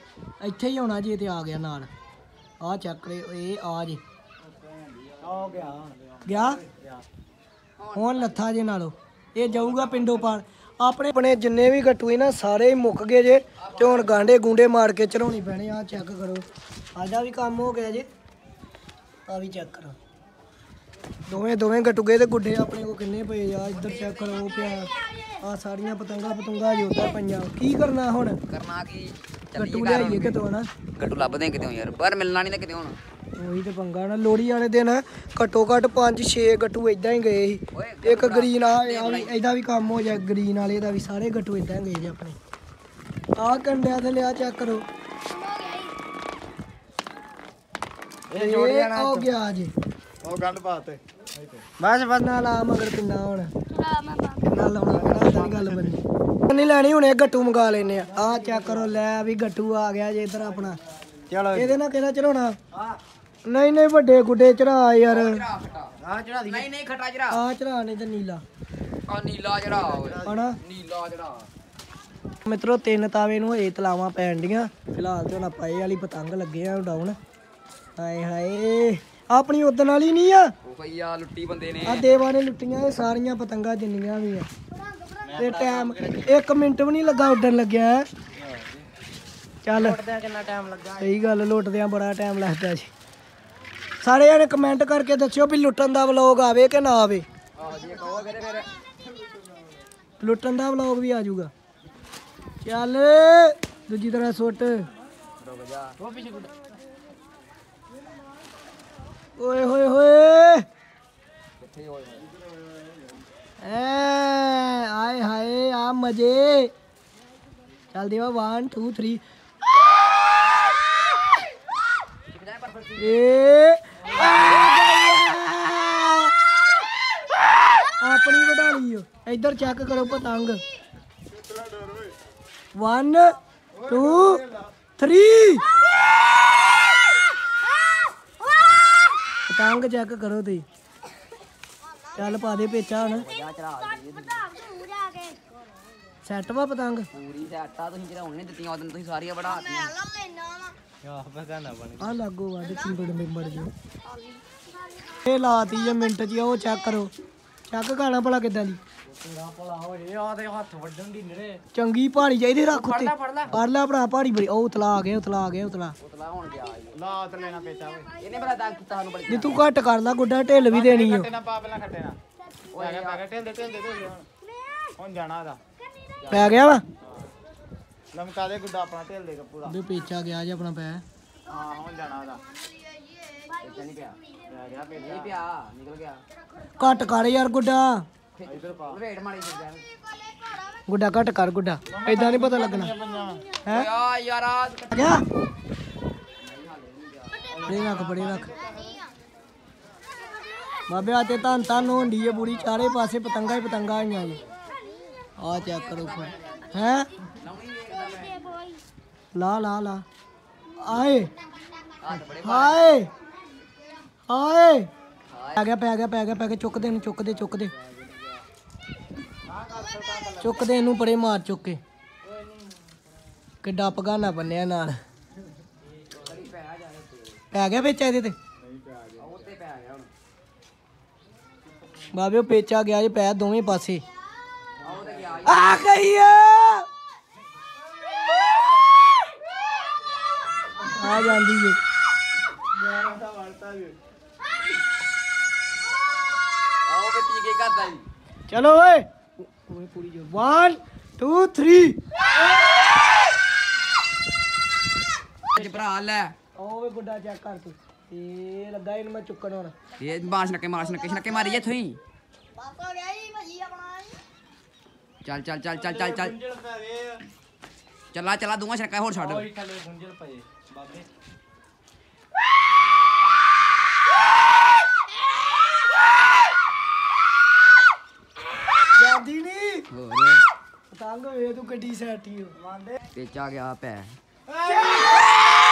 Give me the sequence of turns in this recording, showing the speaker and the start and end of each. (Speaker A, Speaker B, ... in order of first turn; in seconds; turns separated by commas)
Speaker A: 0.4-1.9, Speaker A: 2.6-4.0, Speaker B: 4.4-5.6, Speaker C: 5.2-6.0, Speaker A: 6.3-6.6, Speaker C: 6.7-7.0, Speaker D: 7.8-8.4, Speaker A: 7.9-16.4, Speaker B: 9.5-10.2, Speaker D: 13.6-14.3, Speaker A: 16.9-18.1, Speaker A: 19.3-20.0, Speaker A: 21.3-28.4, Speaker D: 23.7-24.9, Speaker E: 25.0-25.3, Speaker D: 28.5-30.4, Speaker A: 29.6-30.7, Speaker D: 31.0-33.0, Speaker A: 33.4-42.4, Speaker D: 37.7-39.4, Speaker A: 43.4-44.8, Speaker E: 45.3-45.9, Speaker C: 48.3-49.3, Speaker A: 48.3-49.7, Speaker B: 50.2-51.6, Speaker C: 51.8-52.4, Speaker A: 52.1-53.5, Speaker E: 53.7-54.5, Speaker A: 54.5-60.8, Speaker B: 54.9-56.0, Speaker C: 58.1-58.9, Speaker C: 61.3-61.8, Speaker A: 61.5-62.6, Speaker C: 62.7-63.0, Speaker A: 63.5-65.4, Speaker D: 65.1-65.9, Speaker C: 66.0-66.7, Speaker D: 66.5-67.4, Speaker A: 67.3-68.4, Speaker D: 69.1-71.5, Speaker C: 69.7-70.4, Speaker A: 70.2-70.6, Speaker A: 72.5-77.2, Speaker A: 78.0-80.5, Speaker D: 80.6-82.1, Speaker A: 81.8-84.5, Speaker E: 84.9-85.2, Speaker C: 85.2-86.4, Speaker A: 85.4-88.1, Speaker C: 88.4-88.9, Speaker A: 89.7-90.0, Speaker C: 89.8-91.1, Speaker A: 91.0-92.9, Speaker A: 94.0-97.3, Speaker D: 97.6-98.7, Speaker A: 100.2-101.5, Speaker A: 102.6-104.9, Speaker D: 105.4-106.0, Speaker C: 106.0-106.6, Speaker A: 109.4-110.7, Speaker D: 111.6-112.3, Speaker B: 112.4-113.0, Speaker A: 113.6-116.7, Speaker A: 117.9-119.2, Speaker D: 122.3-123.2, Speaker A: 123.0-126.3, Speaker D: 124.2-124.7, Speaker A: 127.9-130.6, Speaker B: 131.3-132.2, Speaker A: 132.8-133.3, Speaker B: 133.7-134.7, Speaker A: 133.9-134.4, Speaker A: 135.0-135.7, Speaker A: 139.5-140.7, Speaker A: 142.1-143.2, Speaker D: 143.0-144.6, Speaker E: 144.6-145.4, Speaker A: 146.2-147.1, Speaker D: 147.1-150.0, Speaker E: 149.9-150.8, Speaker C: 151.0-152.2, Speaker A: 152.0-153.7, Speaker E: 154.0-154.5, Speaker A: 155.2-157.1, Speaker A: 157.7-158.8, Speaker C: 159.1-161.6, Speaker A: 161.7-165.9, Speaker C: 162.7-163.6, Speaker D: 166.0-167.0, Speaker B: 166.9-168.1, Speaker D: 168.2-169.6, Speaker A: 169.3-171.3, Speaker B: 170.7-172.2, Speaker D: 172.7-173.2, Speaker B: 172.8-174.3, Speaker E: 174.5-174.9, Speaker B: 175.0-175.6, Speaker D: 176.2-176.6, Speaker A: 176.3-176.8, Speaker B: 178.1-179.8, Speaker A: 179.7-181.0, Speaker B: 181.5-182.4, Speaker E: 182.8-183.5, Speaker D: 183.6-184.2, Speaker B: 184.5-185.3, Speaker D: 184.9-186.2, Speaker A: 186.8-188.1, Speaker D: 188.3-189.9, Speaker B: 188.5-189.0, Speaker E: 190.2-190.7, Speaker A: 190.9-192.9, Speaker B: 191.9-193.5, Speaker A: 193.6-193.9, Speaker D: 193.7-195.1, Speaker A: 194.9-195.2, Speaker D: 196.4-197.8, Speaker C: 197.5-198.9, Speaker A: 197.6-198.5, Speaker E: 198.8-199.1, Speaker A: 200.9-204.4, Speaker C: 202.0-202.6, Speaker A: 205.4-207.1, Speaker D: 205.5-208.6, Speaker E: 208.2-208.8, Speaker A: 209.3-210.0, Speaker A: 210.8-211.3, Speaker D: 212.0-212.9, Speaker A: 212.3-213.1, Speaker A: 214.3-214.9, Speaker D: 215.3-215.7, Speaker A: 215.6-217.7, Speaker B: 219.5-220.6, Speaker A: 220.4-221.8, Speaker C: 222.2-222.7, Speaker A: 223.6-225.0, Speaker D: 226.2-227.4, Speaker A: 227.5-228.4, Speaker B: 228.6-229.3, Speaker D: 229.2-230.1, Speaker A: 232.1-234.0, Speaker D: 234.8-235.8, Speaker A: 235.4-236.9, Speaker A: 240.8-241.8, Speaker B: 242.7-244.0, Speaker D: 246.9-248.0, Speaker A: 248.5-252.0, Speaker D: 255.5-256.4, Speaker C: 255.6-255.8, Speaker A: 256.6-259.7, Speaker D: 260.0-262.0, Speaker E: 262.6-264.2, Speaker D: 265.2-266.4, Speaker C: 265.8-267.2, Speaker D: 268.1-269.5, Speaker C: 269.2-271.1, Speaker A: 278.9-279.9, Speaker D: 279.9-280.4, Speaker A: 280.9-282.6, Speaker C: 282.6-283.0, Speaker D: 283.1-284.2, Speaker C: 284.5-285.3, Speaker A: 284.7-285.0